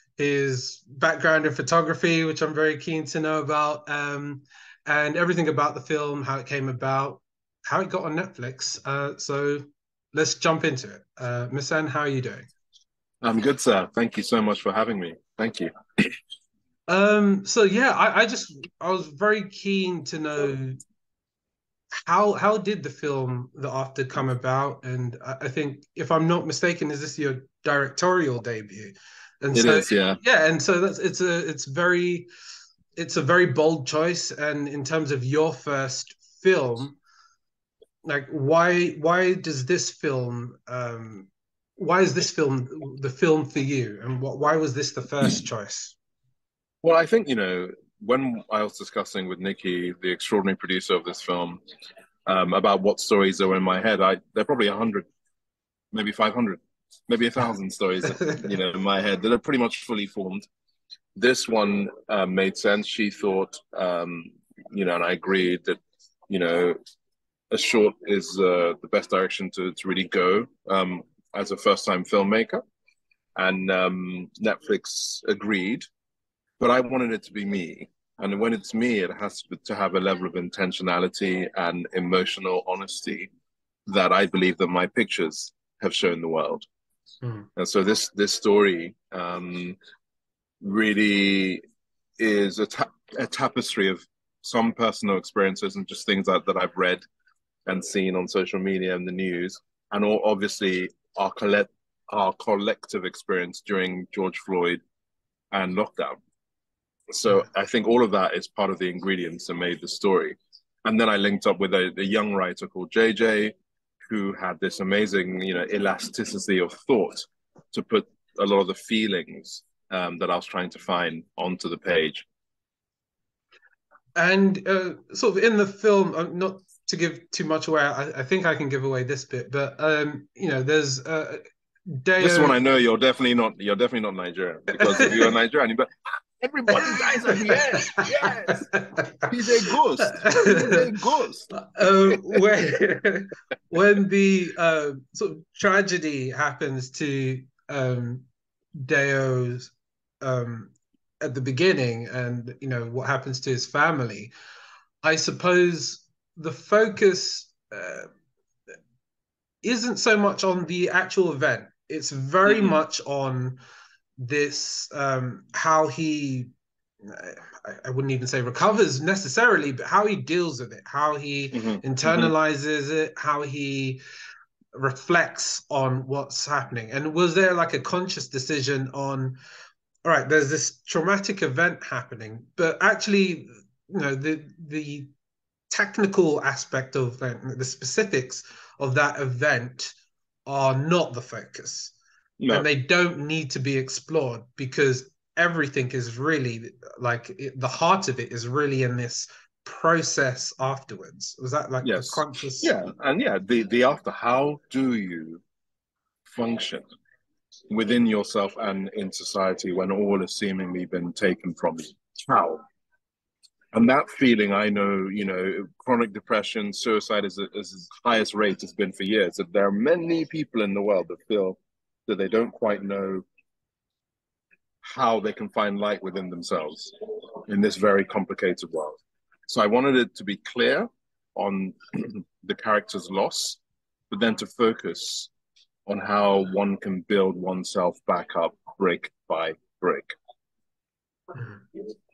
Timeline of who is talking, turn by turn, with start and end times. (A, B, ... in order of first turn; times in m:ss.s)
0:00.2-0:12.5 A
0:13.2-0:16.1 B
0:16.9-0:20.8 A
0:22.1-0:32.3 A
0:29.5-0:30.2 B
0:33.0-0:37.0 A
0:38.0-0:46.0 A
0:46.8-0:51.6 B
0:52.3-0:55.1 B
0:55.9-1:00.5 B
1:01.2-1:06.8 B
1:07.5-1:12.6 B
1:13.4-1:15.9 B
1:16.6-1:23.3 B
1:23.9-1:26.7 B
1:27.6-1:29.8 B
1:30.6-1:31.6 B
1:32.2-1:37.0 B
1:37.7-1:44.8 B
1:45.5-1:46.2 B
1:47.1-1:53.5 B
1:54.1-2:02.3 B
2:04.2-2:12.6 A
2:12.2-2:18.7 B
2:14.8-2:15.2 A
2:16.8-2:19.2 A
2:19.3-2:22.2 B
2:20.1-2:20.8 A
2:21.5-2:34.3 A
2:35.0-2:38.1 A
2:39.6-2:43.6 A
2:42.5-2:42.8 B
2:44.2-2:46.5 A
2:47.0-2:54.0 A
2:51.5-2:52.3 B
2:54.8-2:59.4 A
3:00.0-3:05.1 A
3:05.7-3:10.0 A
3:10.5-3:12.0 A
3:12.4-3:12.7 B
3:12.5-3:22.8 A
3:21.8-3:25.4 B
3:26.3-3:26.8 B
3:27.7-3:32.6 B
3:33.7-3:43.2 B
3:44.8-3:46.9 B
3:47.5-3:53.6 B
3:54.1-3:55.3 B
3:55.9-4:00.2 B
4:01.3-4:01.6 A